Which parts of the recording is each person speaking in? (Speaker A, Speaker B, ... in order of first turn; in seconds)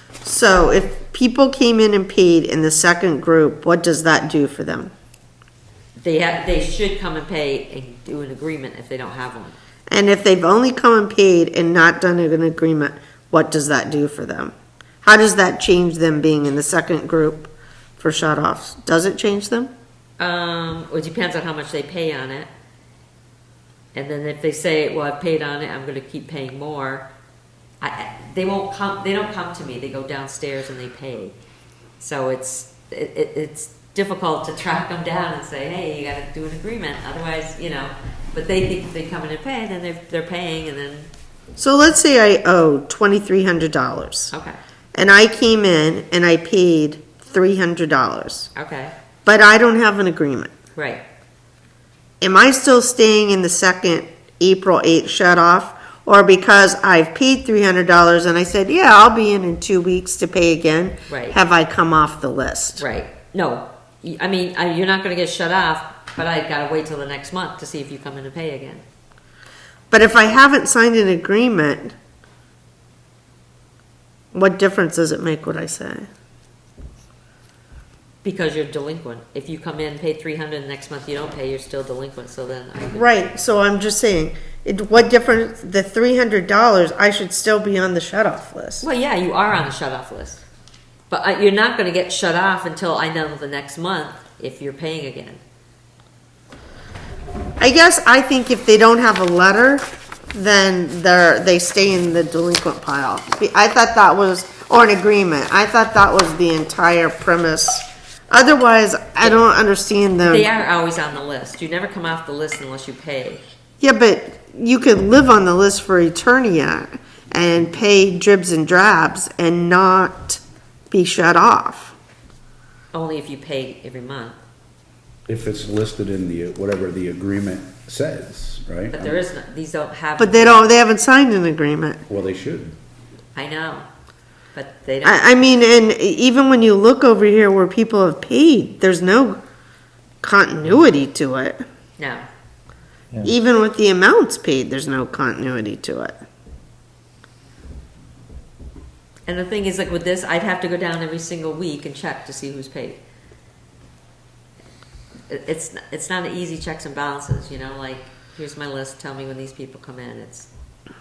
Speaker A: 0.2-4.9, 9.9-19.7, 41.6-44.3, 44.9-48.5, 49.2-50.5, 52.2-62.8, 69.9-71.9, 74.3-76.1, 82.9-88.8, 97.6-110.5, 113.8-121.9, 130.2-132.0, 135.0-139.4, 140.2-141.6, 143.2-146.2
Speaker B: 6.0-9.6, 20.2-22.5, 23.9-27.1, 27.8-31.3, 32.0-41.1, 44.3-44.6, 48.5-48.9, 50.7-51.0, 61.1-61.4, 62.8-68.8, 78.2-83.1, 88.8-90.4, 91.1-95.4, 110.2-113.4, 122.9-124.4, 128.9-130.6, 133.3-133.9, 134.5-135.3, 142.0-142.3, 149.2-153.0, 155.3-160.5
Speaker C: 125.3-129.2, 132.1-132.7